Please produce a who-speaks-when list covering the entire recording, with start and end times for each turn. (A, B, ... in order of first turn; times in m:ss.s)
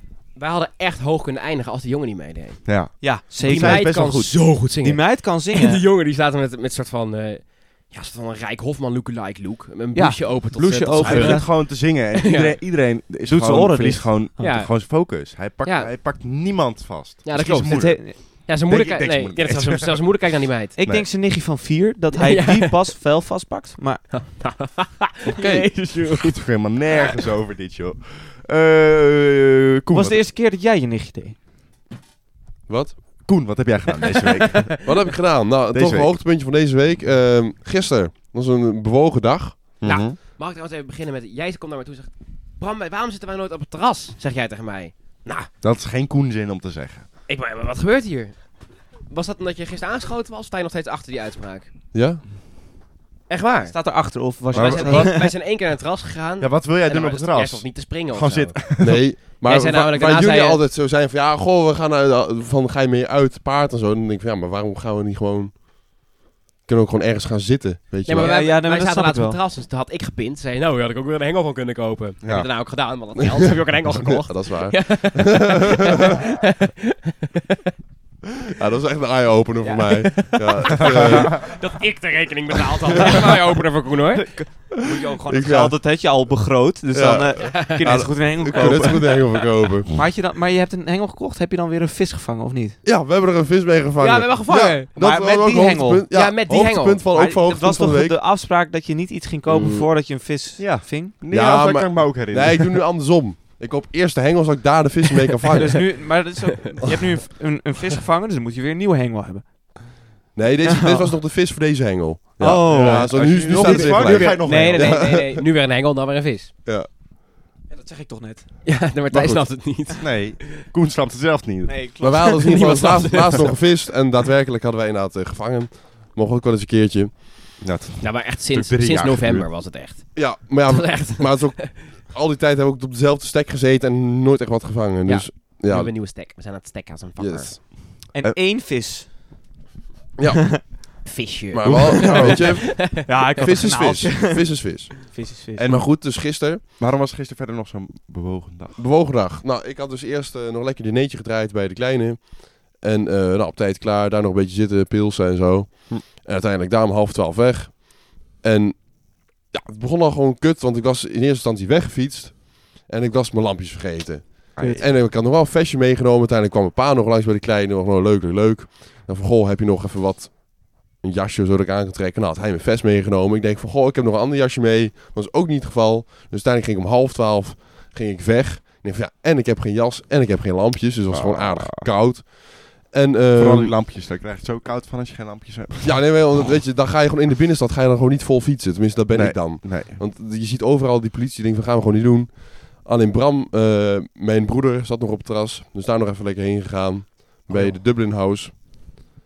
0:00.3-0:12.6 A
0:02.6-0:04.5 B
0:03.0-0:04.0 C
0:04.8-0:05.8 C
0:09.9-0:11.4 C
0:11.0-0:20.0 B
0:13.2-0:14.3 C
0:14.4-0:15.9 A
0:17.2-0:20.8 A
0:17.7-0:18.2 C
0:20.8-0:24.2 C
0:20.8-0:21.1 B
0:22.1-0:22.9 A
0:24.1-0:26.4 A
0:25.3-0:25.7 D
0:26.0-0:30.2 B
0:29.9-0:31.4 C
0:32.7-0:33.0 D
0:33.2-0:34.8 B
0:34.1-0:34.8 A
0:34.8-0:39.8 D
0:35.7-0:36.2 B
0:39.8-0:40.2 B
0:39.8-0:45.5 A
0:45.6-0:47.1 B
0:47.3-0:51.7 A
0:51.9-0:52.2 D
0:53.3-1:00.6 A
0:53.7-0:55.3 C
0:54.5-0:55.2 B
0:56.4-0:59.0 B
0:58.8-1:05.6 D
1:06.6-1:08.3 D
1:08.0-1:17.0 A
1:08.1-1:09.4 C
1:12.2-1:12.5 B
1:14.0-1:16.0 D
1:18.6-1:21.5 D
1:19.6-1:24.4 A
1:20.9-1:21.3 B
1:24.1-1:32.8 C
1:25.2-1:25.8 D
1:26.9-1:29.9 D
1:27.5-1:27.9 A
1:28.5-1:29.2 A
1:32.8-1:38.2 D
1:34.0-1:34.9 A
1:35.0-1:36.0 C
1:36.1-1:37.0 A
1:37.1-1:41.1 C
1:40.6-1:42.8 B
1:41.3-1:46.0 D
1:45.6-1:50.0 C
1:50.3-1:55.4 D
1:50.6-1:51.1 C
1:52.4-1:55.2 B
1:52.4-1:53.9 C
1:53.6-1:56.5 A
1:57.7-1:58.5 C
1:58.6-2:00.2 A
1:59.1-1:59.5 D
2:00.0-2:01.8 B
2:01.6-2:03.5 C
2:02.0-2:07.6 D
2:02.5-2:03.5 A
2:07.6-2:09.5 B
2:08.0-2:11.7 A
2:10.1-2:15.9 D
2:15.0-2:17.5 A
2:17.2-2:17.6 D
2:18.1-2:19.1 C
2:20.2-2:21.0 D
2:21.0-2:23.5 A
2:21.5-2:26.6 D
2:21.6-2:22.4 B
2:22.2-2:25.7 C
2:25.6-2:25.9 B
2:26.8-2:28.8 B
2:28.8-3:03.7 D
2:44.6-2:44.8 B
2:44.6-2:44.8 C
3:01.1-3:01.9 B
3:03.3-3:06.5 B
3:05.8-3:19.0 D
3:09.1-3:10.0 B
3:17.5-3:17.8 B